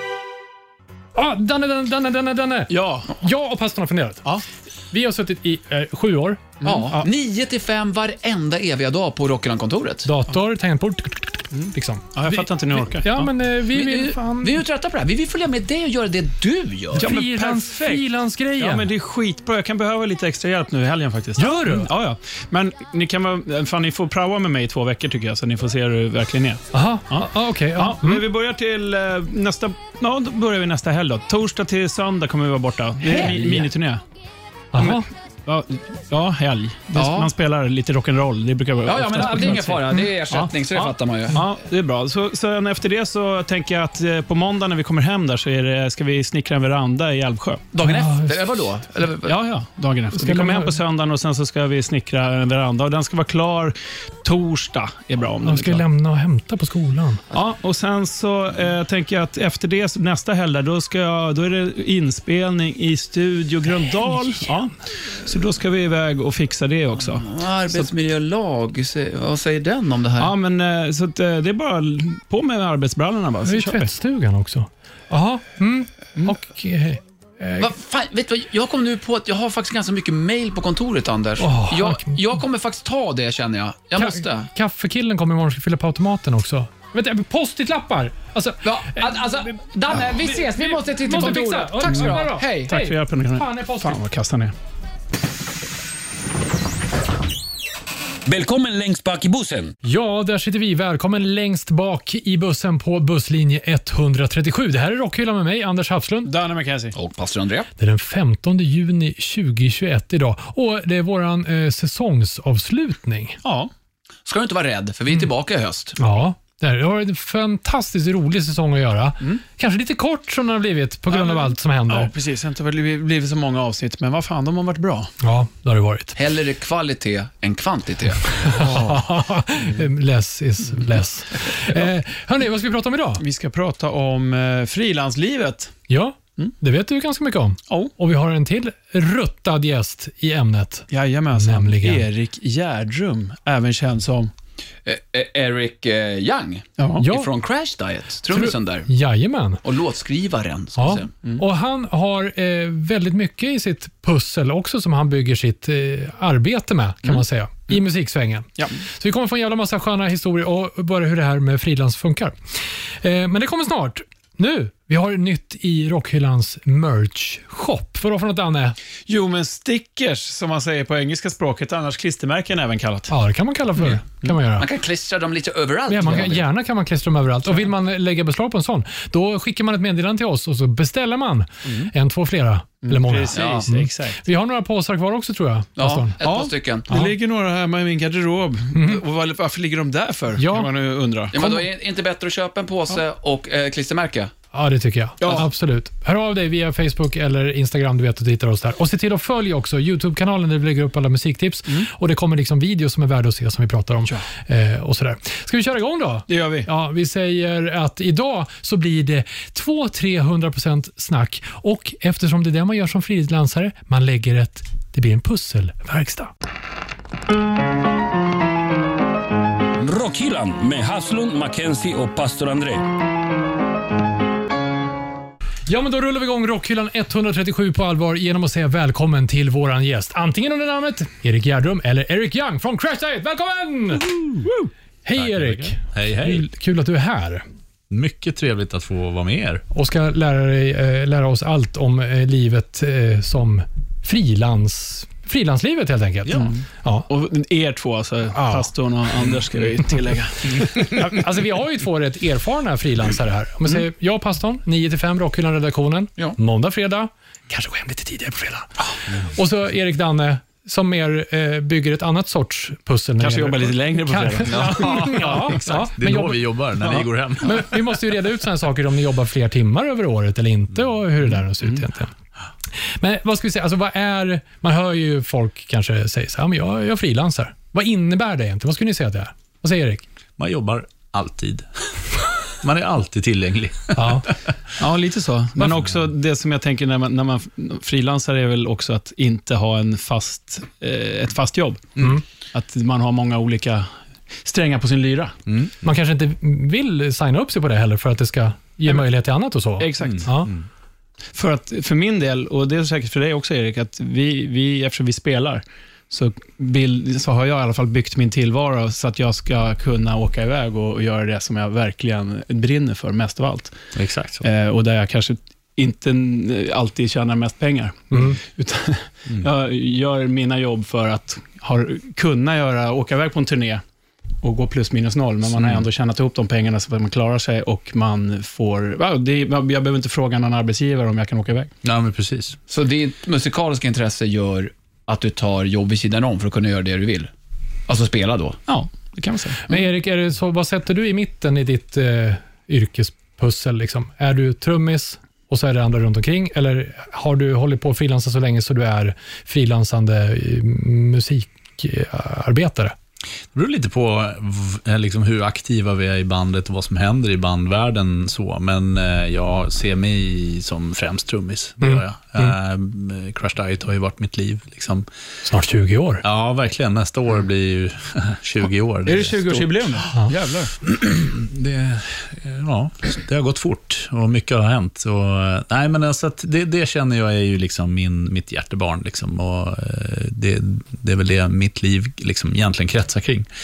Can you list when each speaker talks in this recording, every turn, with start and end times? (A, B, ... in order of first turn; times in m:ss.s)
0:01.2-0:04.3 A
0:02.7-0:03.1 B
0:04.9-0:06.4 A
0:06.6-0:07.1 B
0:06.6-0:10.1 C
0:10.0-0:14.6 A
0:11.6-0:13.3 B
0:13.7-0:17.1 C
0:16.9-0:18.9 A
0:17.0-0:18.0 B
0:18.6-0:34.0 B
0:21.4-0:21.9 A
0:26.7-0:28.2 A
0:33.0-0:33.7 C
0:34.7-0:35.1 A
0:34.8-0:40.0 B
0:37.0-0:37.3 C
0:38.8-0:41.4 C
0:41.3-0:47.7 B
0:47.7-0:49.4 C
0:47.8-0:48.6 A
0:49.3-0:55.8 B
0:50.1-0:50.8 A
0:55.4-0:57.2 A
0:57.3-1:07.9 B
1:07.1-1:10.3 C
1:10.2-1:13.9 B
1:13.4-1:17.7 A
1:17.6-1:24.5 C
1:21.4-1:22.2 A
1:24.0-1:29.0 A
1:28.6-1:32.8 C
1:30.1-1:34.0 A
1:31.8-1:34.5 B
1:38.3-1:39.7 D
1:39.8-1:46.3 A
1:46.2-1:47.0 B
1:47.0-1:47.7 C
1:47.8-1:53.4 A
1:53.4-1:53.7 B
1:54.3-1:56.0 C
1:56.0-2:02.1 A
2:01.1-2:05.1 B
2:05.2-2:06.2 A
2:06.2-2:08.6 C
2:08.4-2:13.2 A
2:08.4-2:09.0 B
2:13.2-2:15.7 B
2:15.9-2:22.1 A
2:20.9-2:24.3 B
2:24.8-2:28.9 C
2:27.0-2:27.3 A
2:28.3-2:29.6 A
2:29.6-2:31.1 C
2:30.8-2:42.3 A
2:43.0-2:48.8 A
2:49.1-2:53.1 B
2:53.1-2:54.7 A
2:54.6-2:56.4 C
2:55.9-3:06.2 A
3:02.8-3:04.2 B
3:03.3-3:03.7 C
3:05.8-3:06.9 C
3:06.2-3:11.3 B
3:08.8-3:09.0 A
3:10.4-3:10.7 A
3:11.3-3:14.3 C
3:11.3-3:11.6 A
3:14.5-3:36.3 A
3:15.2-3:15.5 B
3:26.3-3:26.7 B
3:39.8-3:42.8 D
3:45.7-3:54.3 A
3:55.0-3:57.4 A
3:55.2-3:56.5 E
3:57.9-3:59.6 E
3:59.7-4:07.1 A
4:06.2-4:06.6 E
4:06.4-4:10.9 B
4:08.3-4:08.7 A
4:10.6-4:18.7 A
4:19.2-4:26.4 A
4:23.2-4:25.9 B
4:24.5-4:25.4 E
4:26.0-4:27.7 E
4:27.4-4:32.1 A
4:33.0-4:40.0 A
4:40.4-4:41.7 E
4:42.6-4:44.5 E
4:44.0-4:44.3 A
4:44.8-4:51.9 B
4:52.5-4:53.9 B
4:54.4-4:55.4 B
4:55.8-5:00.5 A
4:59.8-5:00.3 B
5:00.0-5:00.6 E
5:01.3-5:13.8 B
5:14.0-5:14.4 E
5:14.4-5:23.8 B
5:18.1-5:18.4 A
5:24.4-5:31.7 B
5:31.8-5:32.6 E
5:32.7-5:37.3 C
5:37.9-5:38.6 C
5:38.7-5:39.6 B
5:39.7-5:52.9 A
5:53.5-6:05.1 E
6:01.8-6:02.5 A
6:05.4-6:06.2 A
6:06.2-6:09.7 E
6:09.1-6:10.8 B
6:10.9-6:23.5 E